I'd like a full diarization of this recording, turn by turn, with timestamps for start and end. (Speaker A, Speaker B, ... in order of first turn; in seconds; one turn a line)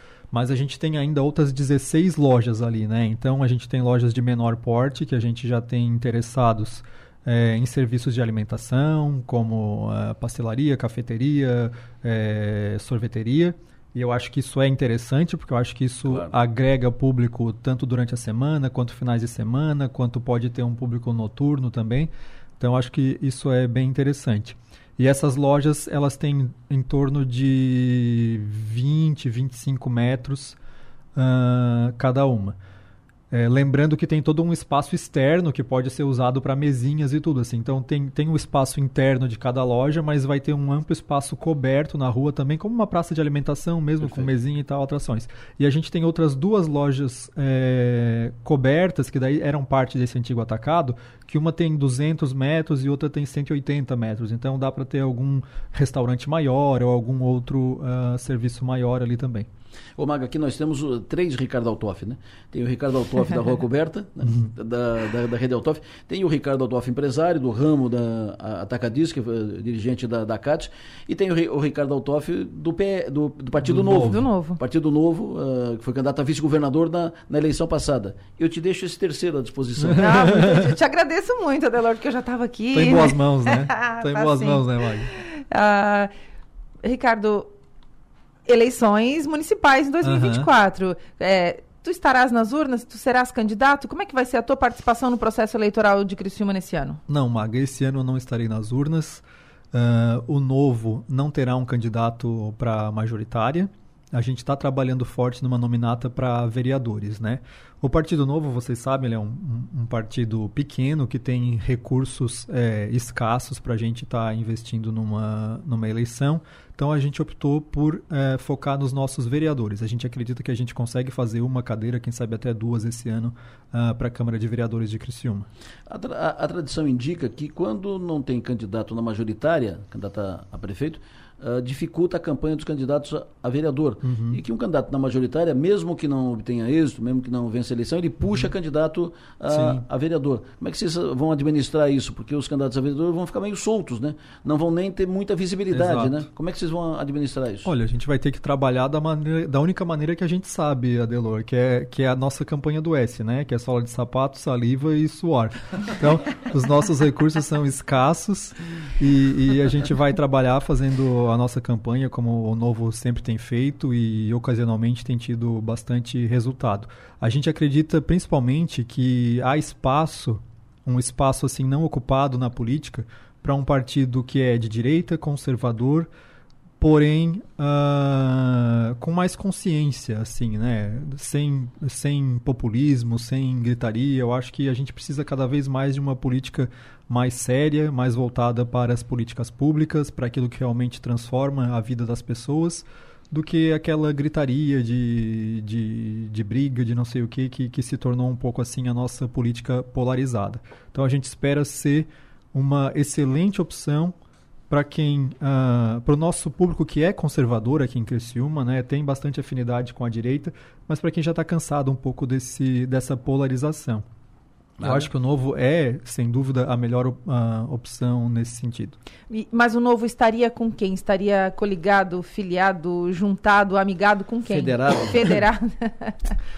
Speaker A: 0.3-30.6
Speaker B: 16.1-16.4
Speaker A: 31.1-32.5
Speaker A: 33.3-59.5
Speaker B: 44.0-44.4
Speaker B: 60.0-80.1
Speaker A: 64.2-64.5
Speaker A: 73.6-74.2
Speaker C: 74.0-74.6
Speaker A: 79.8-80.7
Speaker C: 79.9-86.1
Speaker A: 82.7-85.1
Speaker C: 86.8-87.5
Speaker C: 88.5-97.0
Speaker A: 90.0-90.5
Speaker A: 97.1-125.5
Speaker B: 125.9-147.7
Speaker A: 134.0-134.4
Speaker A: 138.2-138.5
Speaker A: 139.5-139.8
Speaker A: 145.7-146.2
Speaker A: 147.6-176.1
Speaker A: 176.8-204.1
Speaker A: 204.7-214.0
Speaker B: 214.8-215.1
Speaker A: 214.8-219.0
Speaker C: 219.3-226.3
Speaker B: 224.5-225.2